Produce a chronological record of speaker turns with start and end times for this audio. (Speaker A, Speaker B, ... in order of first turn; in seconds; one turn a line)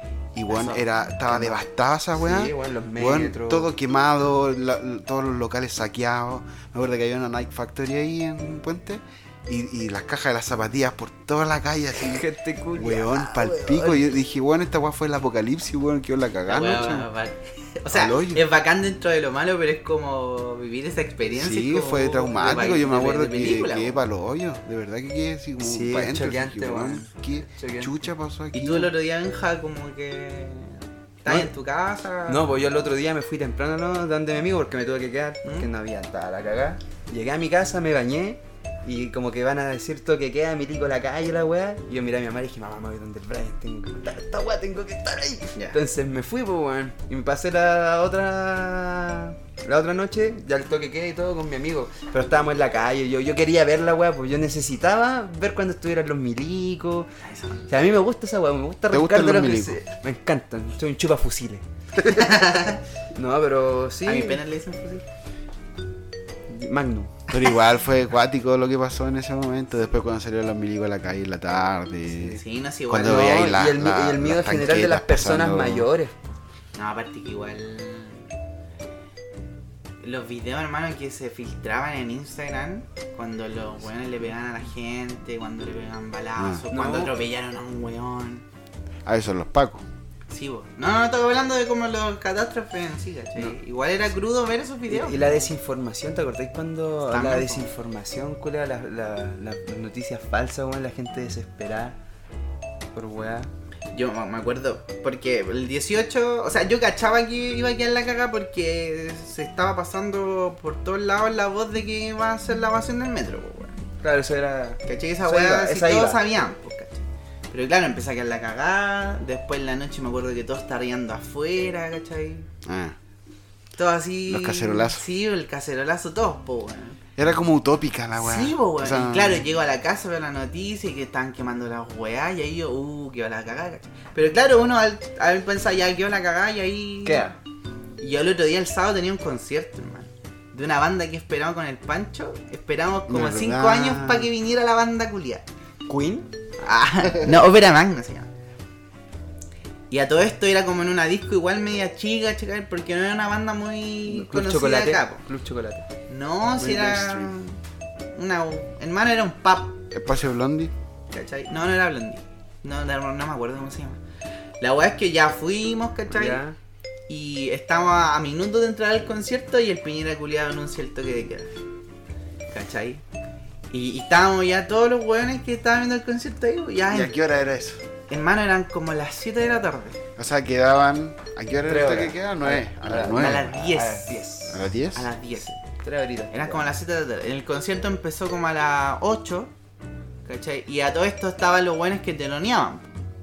Speaker A: 0.3-12.2
Speaker B: 0.5-0.9
Speaker C: 1.3-1.6
Speaker C: 2.1-3.7
Speaker C: 12.0-14.2
Speaker A: 12.8-17.1
Speaker B: 16.5-24.0
Speaker A: 17.9-18.4
Speaker A: 21.3-28.9
Speaker C: 25.6-28.1
Speaker B: 28.5-32.5
Speaker C: 32.3-57.1
Speaker B: 35.4-35.7
Speaker B: 57.2-57.7
Speaker C: 57.7-61.6
Speaker A: 58.9-59.8
Speaker B: 62.1-62.8
Speaker C: 63.1-64.4
Speaker B: 64.0-65.0
Speaker C: 66.5-67.3
Speaker A: 67.3-75.9
Speaker B: 72.4-73.5
Speaker C: 73.0-76.2
Speaker B: 76.8-78.3
Speaker B: 80.0-88.5
Speaker A: 86.4-86.7
Speaker C: 86.7-87.1
Speaker A: 89.1-89.8
Speaker B: 90.3-95.5
Speaker C: 94.9-102.0
Speaker B: 97.1-97.7
Speaker C: 102.9-103.5
Speaker B: 103.9-113.8
Speaker C: 114.0-116.2
Speaker B: 114.8-122.5
Speaker A: 122.7-123.0
Speaker B: 123.8-127.0
Speaker A: 124.3-125.0
Speaker A: 127.2-129.4
Speaker B: 128.2-137.3
Speaker C: 137.0-137.4
Speaker B: 138.0-145.4
Speaker A: 143.1-144.3
Speaker C: 145.9-146.3
Speaker B: 146.6-148.3
Speaker B: 149.9-155.2
Speaker C: 154.1-155.9
Speaker B: 156.1-157.6
Speaker A: 156.6-157.4
Speaker B: 158.2-159.8
Speaker A: 159.9-160.7
Speaker B: 161.1-164.0
Speaker B: 164.6-166.4
Speaker C: 166.1-166.6
Speaker B: 167.1-171.5
Speaker B: 172.5-173.0
Speaker B: 173.7-177.1
Speaker A: 176.9-177.8
Speaker B: 178.1-180.0
Speaker A: 180.2-183.5
Speaker C: 181.7-184.7
Speaker B: 183.1-184.3
Speaker A: 184.5-185.1
Speaker B: 184.9-185.5
Speaker C: 185.4-186.7
Speaker B: 186.3-189.5
Speaker B: 190.2-192.9